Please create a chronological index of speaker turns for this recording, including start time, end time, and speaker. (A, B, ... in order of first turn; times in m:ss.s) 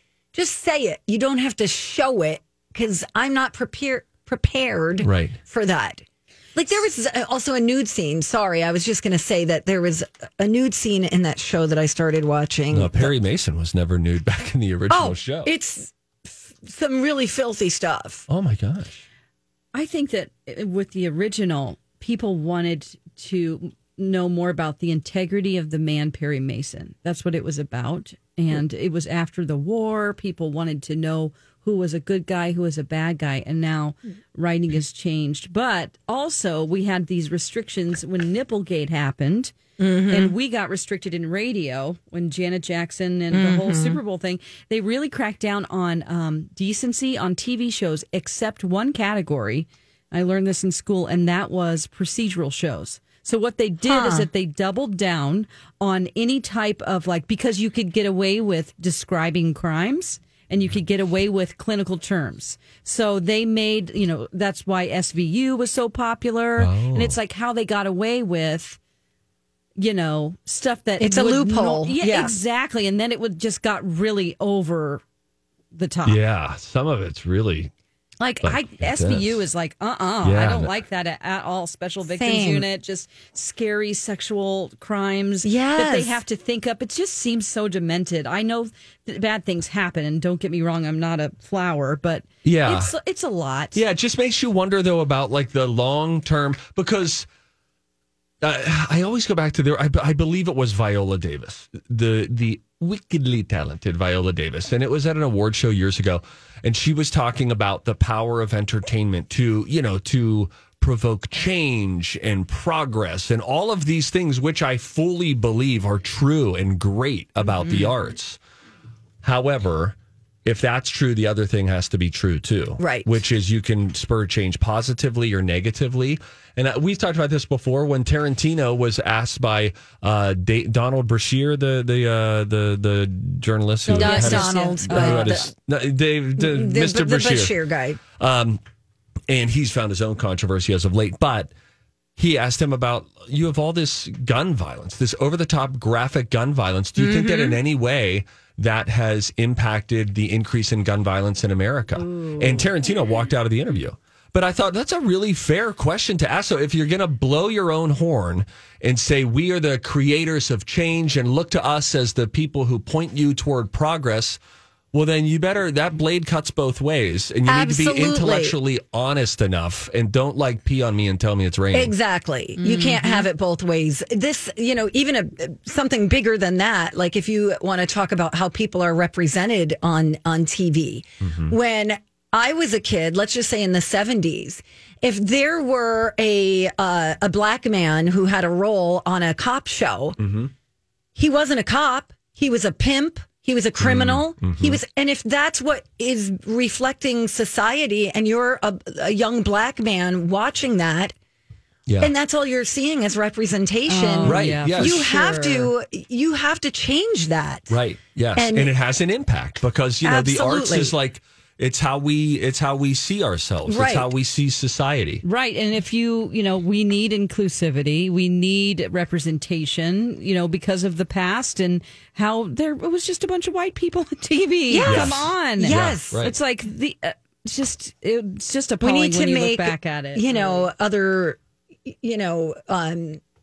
0:00.3-0:06.0 A
0:05.0-0:05.4 B
0:06.6-0:13.2 A
0:12.7-0:15.5 B
0:14.9-0:18.3 A
0:18.3-0:19.0 B
0:19.7-1:08.8 C
0:39.8-0:40.4 A
0:43.3-0:44.0 A
0:53.8-0:54.3 A
1:06.6-1:07.2 B
1:09.8-1:15.0 C
1:11.0-1:12.4 A
1:15.7-1:16.2 C
1:16.0-1:17.7 B
1:18.2-1:33.8 C
1:18.4-1:19.4 B
1:20.2-1:20.7 B
1:22.1-1:22.7 A
1:25.4-1:26.2 A
1:32.4-1:32.9 B
1:33.7-1:37.3 B
1:38.4-1:58.4 B
1:57.6-1:57.9 C
1:59.2-2:17.6 B
2:02.8-2:03.1 A
2:13.9-2:15.5 C
2:13.9-2:15.5 A
2:16.4-2:18.0 A
2:18.2-2:18.6 B
2:19.3-2:21.5 B
2:22.2-2:44.4 B
2:27.0-2:27.6 A
2:32.0-2:32.7 C
2:44.9-2:51.9 B
2:47.5-2:48.6 A
2:51.7-3:10.2 A
2:52.6-2:53.3 C
3:01.2-3:01.5 B
3:10.2-3:10.5 B
3:11.2-3:21.1 A
3:13.8-3:14.8 B
3:21.9-3:22.1 B
3:22.0-3:27.8 A
3:23.9-3:25.7 C
3:24.2-3:25.1 B
3:27.7-3:35.2 B
3:28.4-3:28.7 A
3:30.0-3:31.0 A
3:33.7-3:34.1 A
3:35.2-3:50.7 C
3:44.7-3:46.2 A
3:44.8-3:46.4 B
3:48.8-3:53.2 A